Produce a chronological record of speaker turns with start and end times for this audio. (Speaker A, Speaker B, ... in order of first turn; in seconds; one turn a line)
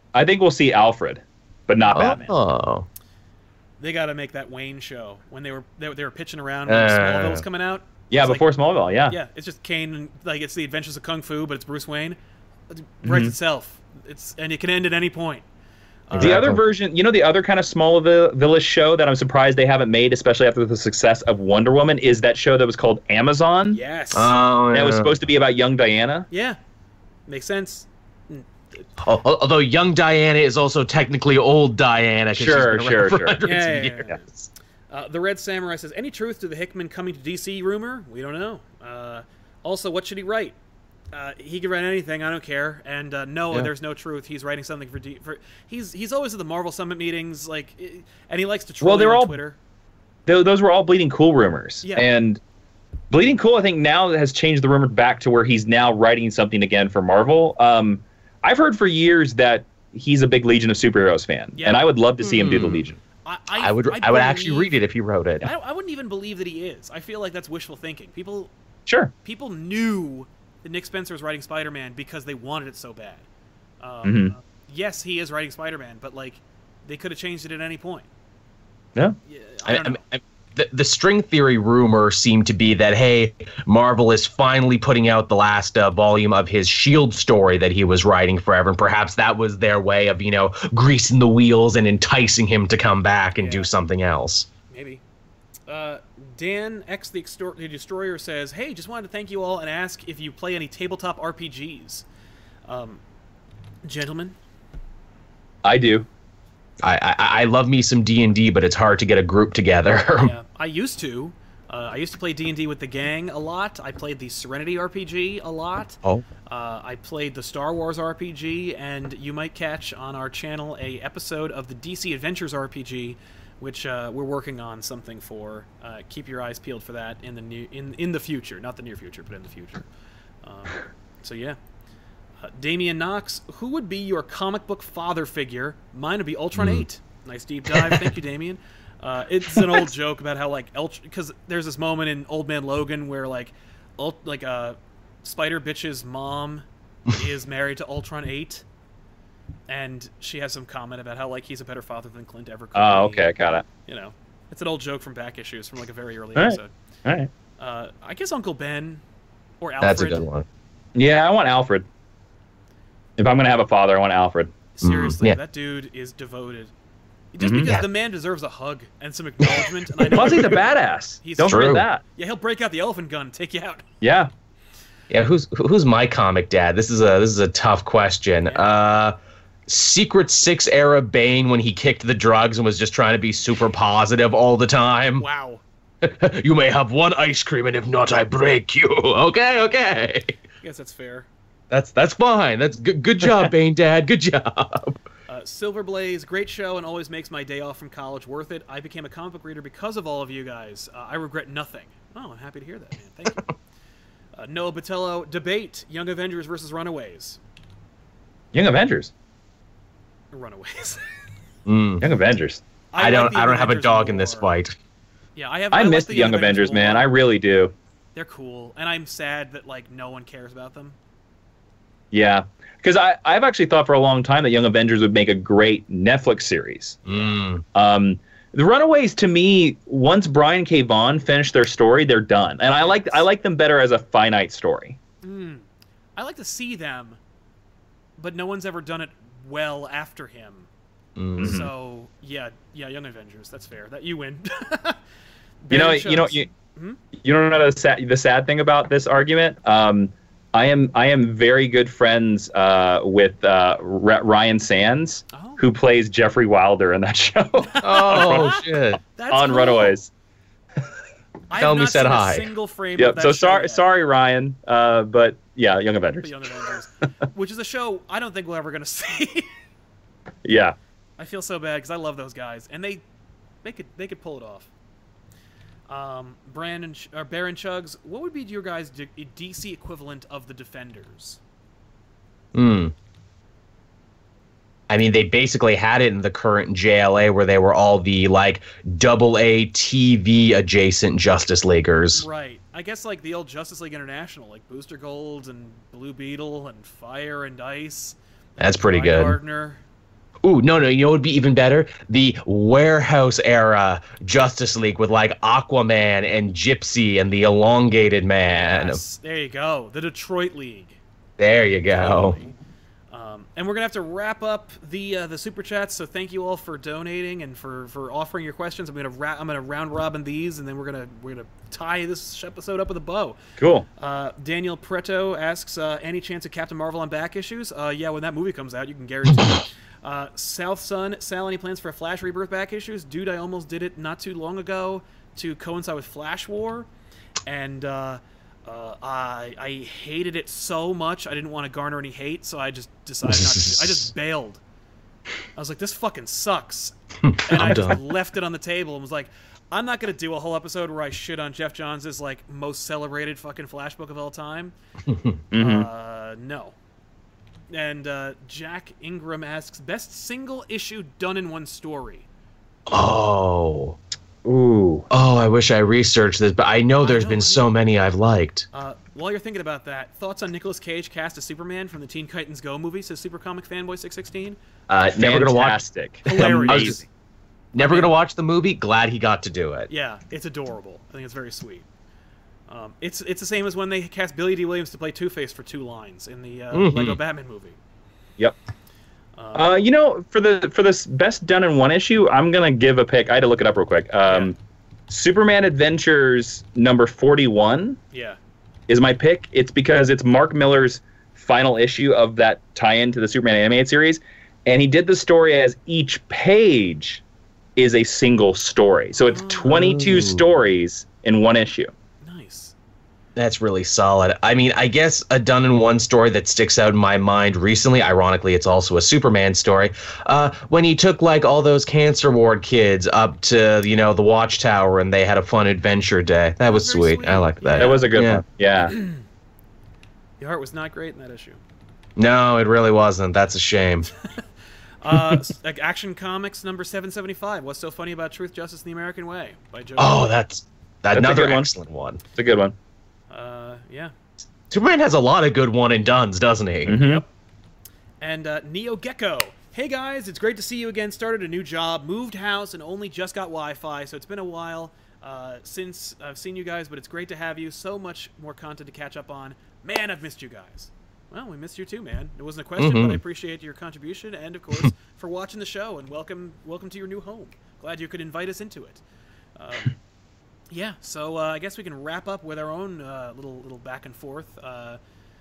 Speaker A: 0.1-2.3
Speaker B: 1.9-2.9
Speaker C: 3.8-8.5
Speaker B: 6.7-7.5
Speaker A: 8.1-9.2
Speaker C: 9.1-12.2
Speaker C: 12.7-15.4
Speaker A: 13.0-13.3
Speaker C: 16.1-16.4
Speaker B: 16.1-16.6
Speaker A: 16.2-23.8
Speaker C: 23.7-24.4
Speaker B: 24.1-25.2
Speaker A: 24.7-26.3
Speaker C: 26.3-26.6
Speaker C: 27.3-28.8
Speaker B: 29.0-34.5
Speaker A: 32.4-33.4
Speaker C: 33.5-34.3
Speaker C: 34.9-40.5
Speaker C: 41.1-49.6
Speaker A: 48.8-49.4
Speaker A: 50.3-52.4
Speaker A: 53.1-63.0
Speaker C: 61.6-64.8
Speaker B: 62.4-62.9
Speaker B: 63.6-65.5
Speaker C: 65.4-68.5
Speaker A: 68.9-69.1
Speaker C: 69.2-73.3
Speaker C: 73.8-78.1
Speaker A: 74.0-74.3
Speaker C: 79.3-80.1
Speaker B: 79.7-94.5
Speaker C: 93.4-93.7
Speaker C: 94.7-95.0
Speaker C: 95.7-102.1
Speaker C: 102.7-103.0
Speaker C: 103.8-104.4
Speaker A: 105.6-106.1
Speaker B: 106.8-110.3
Speaker C: 110.2-129.9
Speaker C: 130.4-131.6
Speaker C: 132.4-148.7
Speaker B: 136.6-136.8
Speaker B: 137.8-138.1
Speaker C: 149.7-156.7
Speaker A: 152.8-153.7
Speaker A: 156.4-157.3
Speaker C: 157.6-159.0
Speaker C: 159.6-160.3
Speaker B: 159.8-160.5
Speaker A: 160.9-161.8
Speaker A: 163.2-164.5
Speaker C: 164.7-166.7
Speaker B: 164.8-165.4
Speaker C: 167.3-170.6
Speaker A: 167.4-167.7
Speaker B: 169.6-170.6
Speaker A: 170.1-172.0
Speaker C: 171.2-173.8
Speaker B: 171.5-171.9
Speaker A: 174.0-174.3
Speaker B: 175.1-179.2
Speaker C: 178.5-178.8
Speaker B: 179.7-185.2
Speaker C: 185.2-185.6
Speaker B: 186.0-190.4
Speaker C: 190.6-191.3
Speaker B: 191.7-195.0
Speaker C: 195.3-203.5
Speaker C: 204.4-207.4
Speaker A: 208.5-209.1
Speaker C: 210.3-211.1
Speaker B: 211.7-212.0
Speaker A: 212.0-212.6
Speaker C: 212.9-214.5
Speaker B: 213.0-214.8
Speaker C: 215.4-217.1
Speaker A: 215.7-217.7
Speaker C: 218.2-221.0
Speaker A: 222.1-227.0
Speaker C: 227.1-227.4
Speaker B: 227.1-227.6
Speaker A: 227.8-235.0
Speaker C: 232.8-233.2
Speaker C: 235.2-237.2
Speaker C: 238.2-240.7
Speaker B: 241.2-241.6
Speaker C: 241.4-245.0
Speaker A: 241.4-241.7
Speaker C: 245.7-247.0
Speaker A: 245.7-246.5
Speaker A: 247.2-258.6
Speaker C: 255.3-255.6
Speaker C: 257.6-260.0
Speaker B: 257.8-259.0
Speaker A: 259.3-260.1
Speaker C: 261.5-263.8
Speaker B: 261.6-262.5
Speaker A: 263.0-266.7
Speaker C: 266.2-269.5
Speaker A: 270.4-270.8
Speaker C: 271.2-273.0
Speaker C: 273.6-274.7
Speaker C: 275.9-281.4
Speaker B: 282.5-282.9
Speaker B: 284.9-292.2
Speaker C: 292.1-299.8
Speaker B: 298.6-299.4
Speaker B: 300.4-309.0
Speaker C: 308.5-311.0
Speaker B: 311.4-312.4
Speaker C: 311.9-312.5
Speaker C: 313.1-323.4
Speaker A: 323.6-323.9
Speaker C: 324.0-336.9
Speaker C: 337.5-344.6
Speaker B: 343.3-344.1
Speaker C: 345.6-354.7
Speaker B: 347.2-348.0
Speaker B: 355.1-355.4
Speaker A: 355.5-355.9
Speaker C: 355.6-356.8
Speaker C: 357.7-362.3
Speaker B: 362.9-364.0
Speaker A: 364.4-365.1
Speaker B: 365.1-368.7
Speaker C: 367.0-367.6
Speaker C: 368.7-374.6
Speaker A: 374.9-377.0
Speaker B: 375.1-377.0
Speaker C: 376.2-377.0
Speaker B: 377.7-379.9
Speaker C: 377.8-378.1
Speaker C: 379.9-381.9
Speaker C: 382.7-387.8
Speaker B: 386.7-387.2
Speaker C: 389.4-389.7
Speaker A: 389.6-394.6
Speaker C: 394.3-394.5
Speaker A: 395.1-398.0
Speaker C: 398.1-398.4
Speaker A: 398.9-407.2
Speaker A: 407.8-411.9
Speaker C: 409.3-410.0
Speaker B: 409.7-410.4
Speaker C: 412.2-412.8
Speaker B: 413.4-428.4
Speaker C: 426.7-428.2
Speaker A: 427.8-429.0
Speaker C: 428.9-429.2
Speaker C: 430.4-431.6
Speaker B: 432.2-434.1
Speaker C: 435.0-440.3
Speaker B: 435.1-435.4
Speaker B: 440.0-442.2
Speaker A: 441.1-441.7
Speaker A: 442.4-442.8
Speaker C: 443.3-444.1
Speaker B: 444.7-447.0
Speaker A: 446.9-447.2
Speaker C: 447.0-447.3
Speaker C: 448.2-469.0
Speaker B: 462.8-463.2
Speaker C: 469.6-469.9
Speaker C: 470.7-475.0